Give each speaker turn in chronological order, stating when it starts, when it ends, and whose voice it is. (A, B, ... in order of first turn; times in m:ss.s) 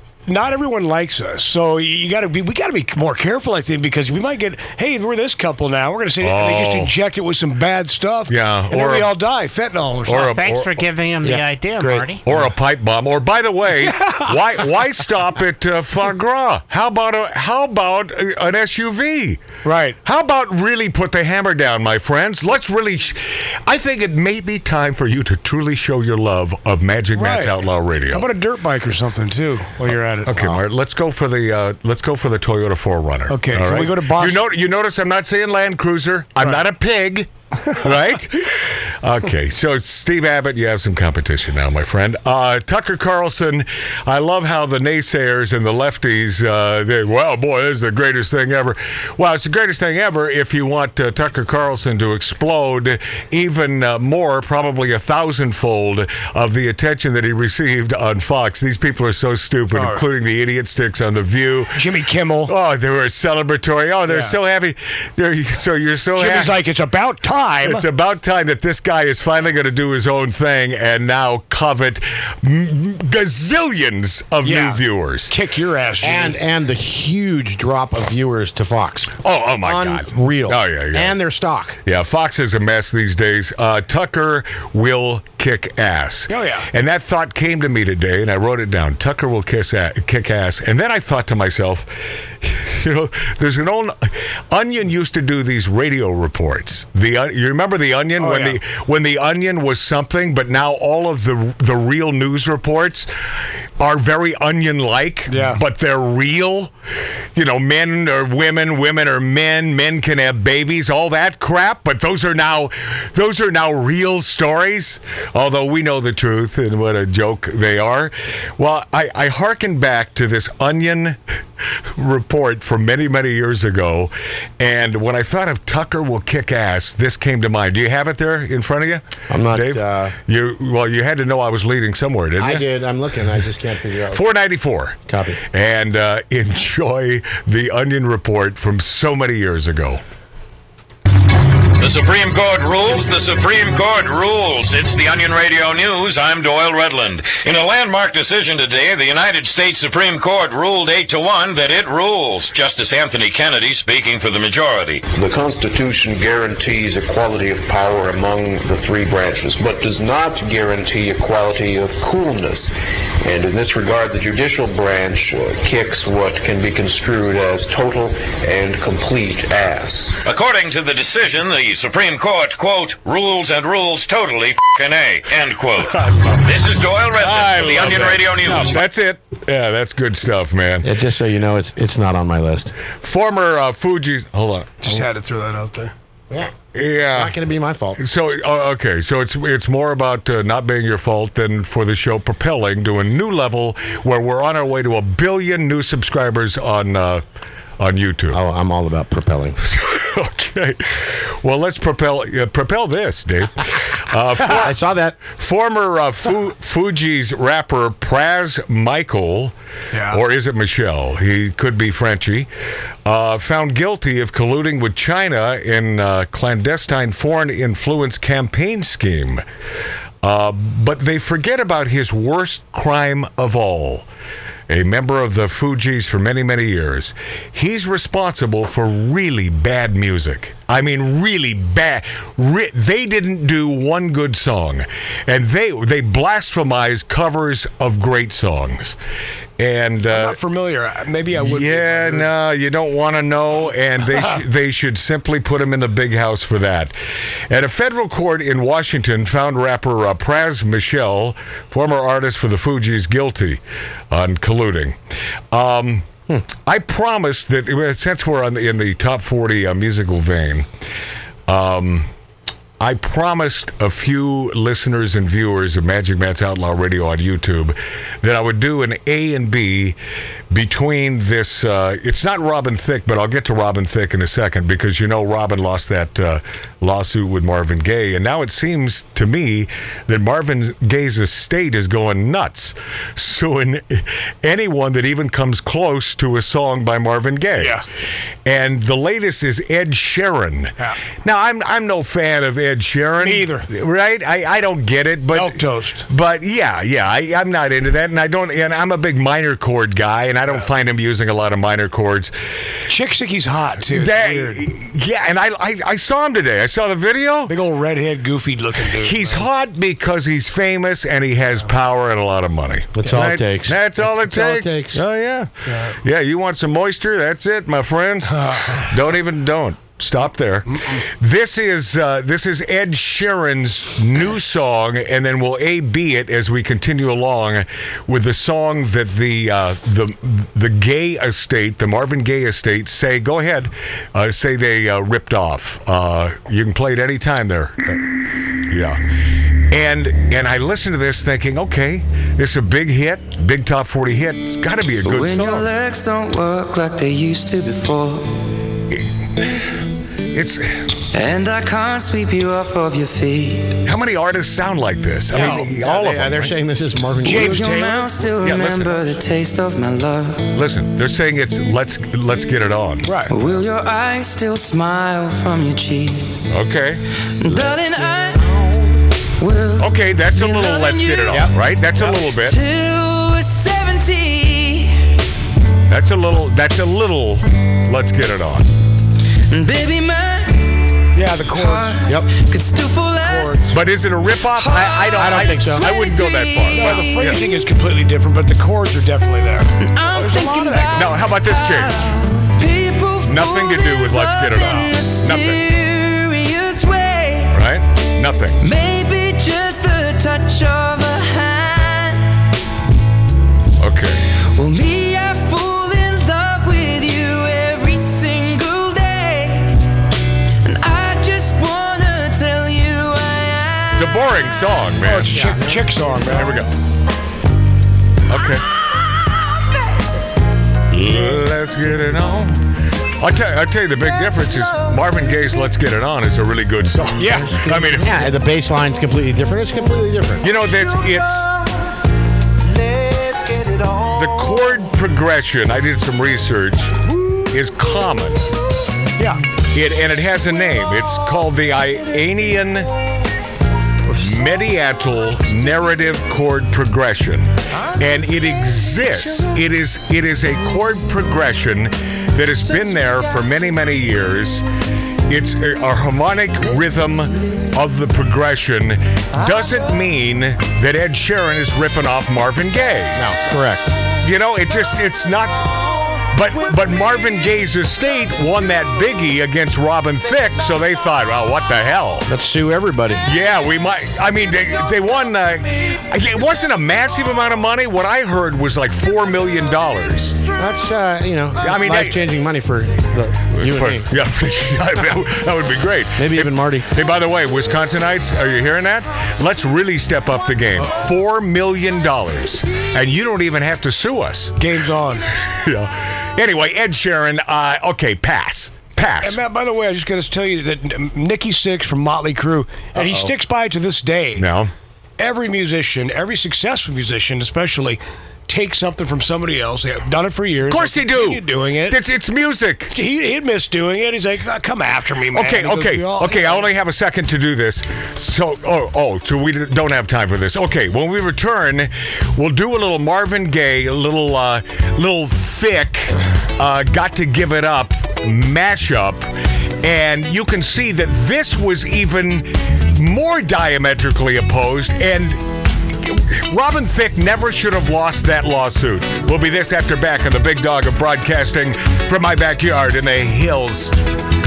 0:00.3-0:10.3 A
0:06.2-0:06.9 B
0:08.3-0:09.1 B
0:10.1-0:10.9 B
0:10.1-0:12.2 C
0:11.2-0:12.1 D
0:12.2-0:19.4 B
0:13.8-0:14.4 A
0:19.6-0:20.0 A
0:20.0-0:28.3 B
0:27.1-0:30.4 A
0:29.9-1:01.9 B
0:33.3-0:34.4 A
0:59.7-1:00.0 A
1:01.7-1:02.5 A
1:02.5-1:06.6 B
1:04.1-1:04.4 A
1:06.2-1:07.8 A
1:07.6-1:15.3 B
1:14.4-1:16.4 A
1:16.0-1:19.1 D
1:19.2-1:21.2 B
1:19.6-1:21.8 D
1:21.8-1:43.1 B
1:26.3-1:26.7 A
1:38.2-1:38.6 A
1:43.8-1:46.7 B
1:45.3-1:45.6 A
1:47.4-2:01.2 B
2:01.9-2:12.7 B
2:09.3-2:10.2 D
2:12.4-2:14.2 D
2:14.1-2:20.0 B
2:15.1-2:15.4 D
2:21.7-2:35.1 E
2:35.1-2:50.2 F
2:50.2-2:58.8 E
2:56.0-2:56.5 B
2:57.2-3:00.9 B
3:00.8-3:02.7 D
3:03.0-3:05.0 B
3:04.8-3:05.9 A
3:06.7-3:07.4 B
3:07.1-3:08.0 D
3:08.0-3:17.2 B
3:17.8-3:18.4 B
3:18.3-3:19.6 D
3:19.6-3:29.5 B
3:24.4-3:25.2 D
3:29.9-3:30.2 A
3:30.1-3:32.5 B
3:33.0-3:39.4 B
3:40.2-3:44.1 B
3:44.7-3:59.0 B
3:59.6-4:00.4 B
4:00.1-4:02.3 A
4:01.3-4:07.0 B
4:07.5-4:15.0 B
4:15.5-4:20.7 B
4:21.5-4:22.1 B
4:22.8-4:30.0 B
4:30.5-4:47.8 B
4:47.6-4:47.8 A
4:48.4-5:02.3 B
4:53.2-4:53.7 A
4:55.3-4:56.1 A
5:02.9-5:04.6 A
5:03.9-5:07.6 B
5:07.5-5:09.5 A
5:09.0-5:39.0 B
5:13.0-5:15.0 D
5:15.7-5:16.0 A
5:18.4-5:18.8 A
5:39.6-5:45.7 B
5:45.0-5:48.4 G
5:50.3-5:50.8 B
5:51.1-5:53.8 G
5:53.8-5:56.6 B
5:55.3-5:57.6 D
5:55.3-5:55.6 A
5:57.2-5:58.1 A
5:57.3-6:00.5 G
5:58.3-5:59.1 B
6:00.5-6:03.1 B
6:03.0-6:03.3 A
6:03.3-6:06.5 G
6:06.5-6:07.8 B
6:07.4-6:08.5 G
6:08.4-6:08.9 B
6:09.4-6:15.1 G
6:09.8-6:12.6 B
6:15.9-6:18.7 B
6:19.5-6:27.5 G
6:21.1-6:22.1 A
6:23.2-6:23.7 A
6:23.7-6:27.4 B
6:25.2-6:25.9 D
6:26.7-6:31.1 A
6:29.8-6:37.6 G
6:30.9-6:32.2 B
6:33.2-6:35.6 B
6:37.5-6:38.6 B
6:38.6-6:42.4 G
6:43.8-6:44.3 B
6:44.5-6:49.9 G
6:50.6-6:54.4 G
6:54.0-6:56.8 B
6:55.0-6:56.6 A
6:55.4-6:55.7 D
6:58.3-6:58.6 B
7:00.9-7:08.3 B
7:07.2-7:07.7 A
7:07.6-7:10.4 D
7:10.4-7:11.5 B
7:14.0-7:18.5 B
7:19.2-7:19.4 A
7:19.6-7:22.9 B
7:24.1-7:34.7 B
7:35.3-7:43.3 B
7:43.2-7:43.9 D
7:44.2-7:52.3 B
7:52.3-7:53.2 D
7:53.2-8:00.4 B
8:00.6-8:04.1 D
8:01.6-8:02.2 B
8:03.5-8:14.6 B
8:06.2-8:06.9 D
8:14.6-8:15.2 A
8:15.4-8:19.4 B
8:19.2-8:24.5 A
8:22.9-8:23.3 B
8:24.4-8:24.7 B
8:25.2-8:32.0 A
8:30.7-8:33.0 B
8:32.9-8:36.7 A
8:35.3-8:49.3 B
8:49.8-9:04.0 B